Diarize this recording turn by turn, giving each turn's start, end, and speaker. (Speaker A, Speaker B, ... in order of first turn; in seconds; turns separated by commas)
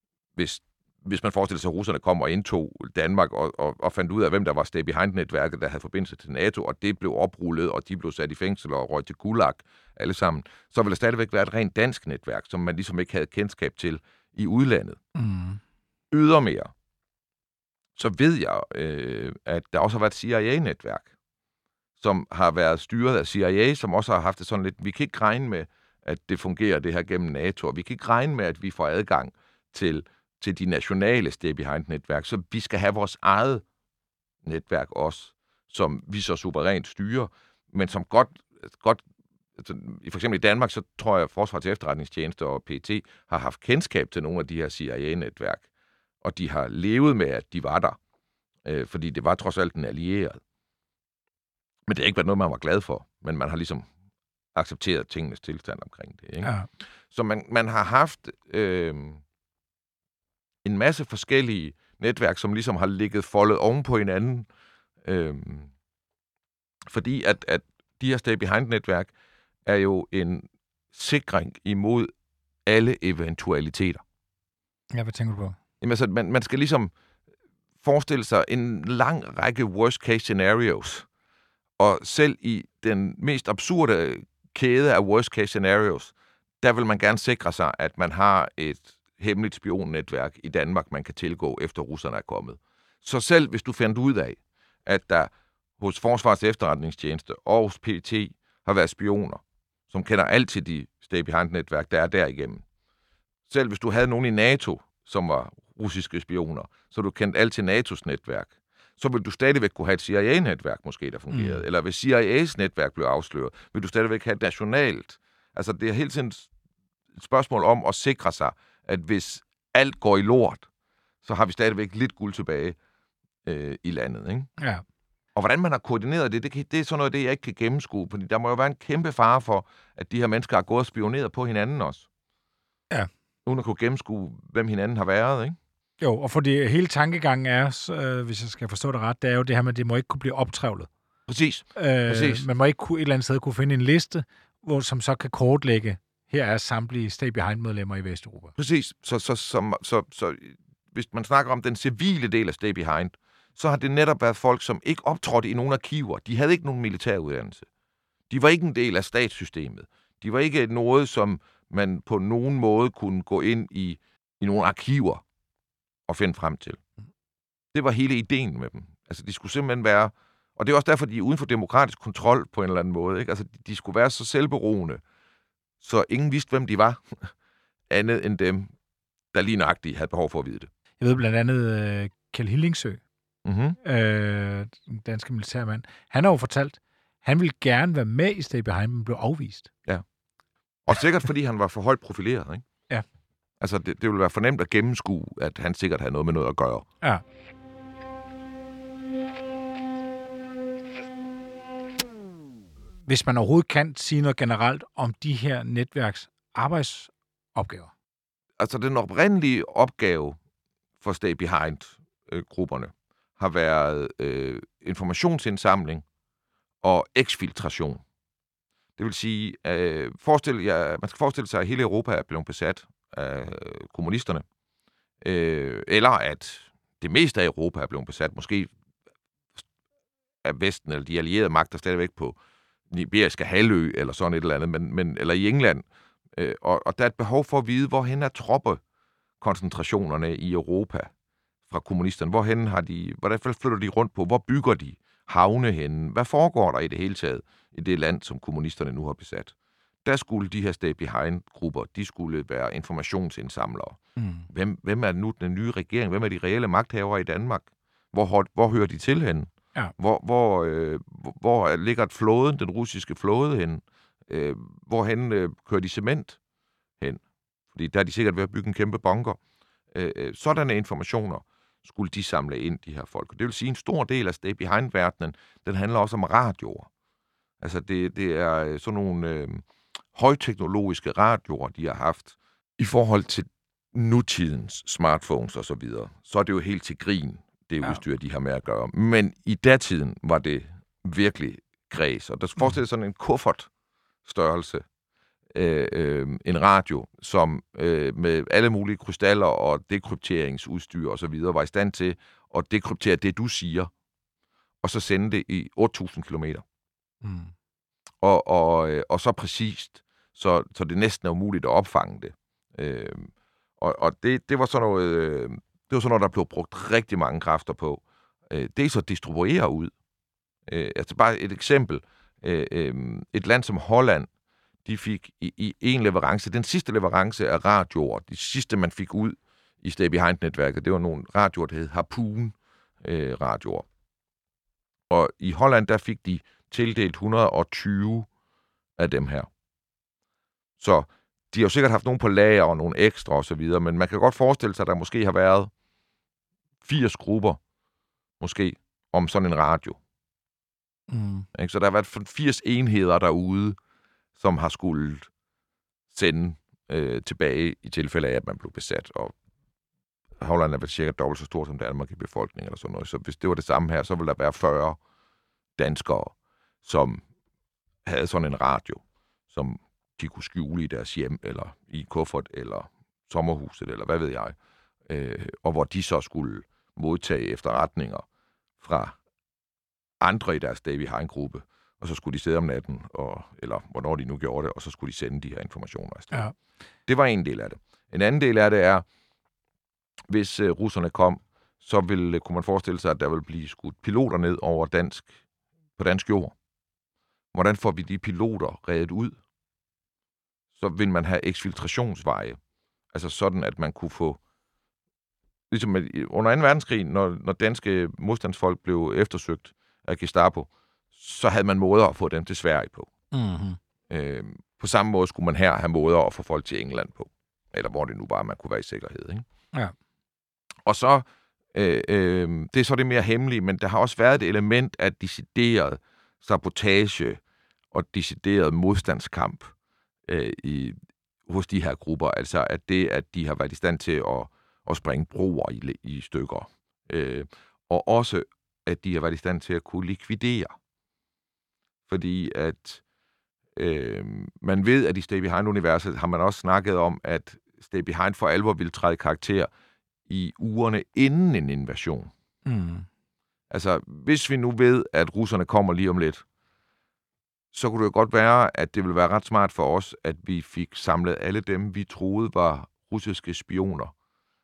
Speaker A: 0.4-15.0, Speaker B: 15.2-15.6, Speaker A: 16.1-16.7, Speaker A: 18.0-21.1, Speaker A: 22.0-33.6, Speaker A: 34.4-39.0, Speaker A: 39.6-45.7, Speaker A: 46.2-48.0, Speaker A: 48.6-50.4, Speaker A: 51.9-53.9, Speaker A: 54.5-56.5, Speaker B: 56.4-56.7, Speaker A: 57.1-59.2, Speaker A: 60.6-64.5, Speaker A: 65.0-65.7, Speaker A: 66.9-69.1, Speaker A: 69.7-72.1, Speaker A: 72.7-74.0, Speaker B: 74.9-75.6, Speaker A: 75.8-76.9, Speaker A: 77.8-81.1, Speaker A: 81.8-102.6, Speaker A: 103.5-116.5, Speaker B: 111.3-111.7, Speaker A: 117.2-120.7, Speaker A: 121.2-122.8, Speaker A: 123.5-124.5, Speaker B: 124.6-124.8, Speaker A: 125.3-132.1, Speaker A: 133.5-135.6, Speaker B: 136.0-140.9, Speaker A: 141.3-142.5, Speaker B: 141.8-148.5, Speaker A: 148.6-157.7, Speaker A: 158.3-165.2, Speaker A: 166.1-166.8, Speaker A: 167.7-175.0, Speaker A: 175.8-177.3, Speaker A: 177.9-178.7, Speaker A: 179.3-180.7, Speaker B: 181.0-183.0, Speaker A: 183.4-183.8, Speaker B: 183.8-189.7, Speaker A: 190.9-192.6, Speaker A: 193.6-196.9, Speaker B: 203.1-207.9, Speaker A: 208.6-210.4, Speaker A: 211.0-216.0, Speaker A: 216.8-218.0, Speaker A: 219.0-224.4, Speaker A: 225.2-228.7, Speaker A: 230.4-232.4, Speaker A: 232.9-238.8, Speaker A: 239.4-241.1, Speaker A: 241.7-249.5, Speaker A: 250.1-266.4, Speaker B: 254.2-254.5, Speaker A: 267.7-269.4, Speaker A: 269.9-276.9, Speaker A: 277.6-293.7, Speaker A: 294.2-294.9, Speaker A: 295.5-303.9, Speaker A: 304.8-306.6, Speaker B: 307.2-307.5, Speaker A: 308.2-319.9, Speaker A: 320.7-324.3, Speaker A: 324.9-333.9, Speaker A: 335.1-338.3, Speaker A: 339.0-339.5, Speaker A: 340.8-345.7, Speaker A: 346.8-347.6, Speaker A: 348.4-350.0, Speaker B: 351.1-351.5, Speaker A: 351.5-353.8, Speaker A: 354.4-355.3, Speaker A: 356.1-359.3, Speaker A: 360.4-365.0, Speaker A: 365.8-367.2, Speaker A: 368.1-374.6, Speaker A: 375.1-378.2, Speaker A: 378.8-379.1, Speaker A: 380.2-386.4, Speaker A: 387.1-389.1, Speaker A: 390.3-395.3, Speaker A: 396.0-396.5, Speaker A: 397.5-399.4, Speaker A: 400.8-402.6, Speaker A: 403.1-404.4, Speaker A: 405.7-413.1, Speaker B: 413.3-413.8, Speaker A: 414.1-419.4, Speaker A: 420.9-427.4, Speaker A: 427.9-429.7, Speaker A: 430.3-440.8, Speaker A: 442.1-443.0, Speaker A: 443.8-449.7, Speaker A: 450.3-452.3, Speaker B: 452.7-453.1, Speaker A: 453.7-456.4, Speaker A: 457.7-464.1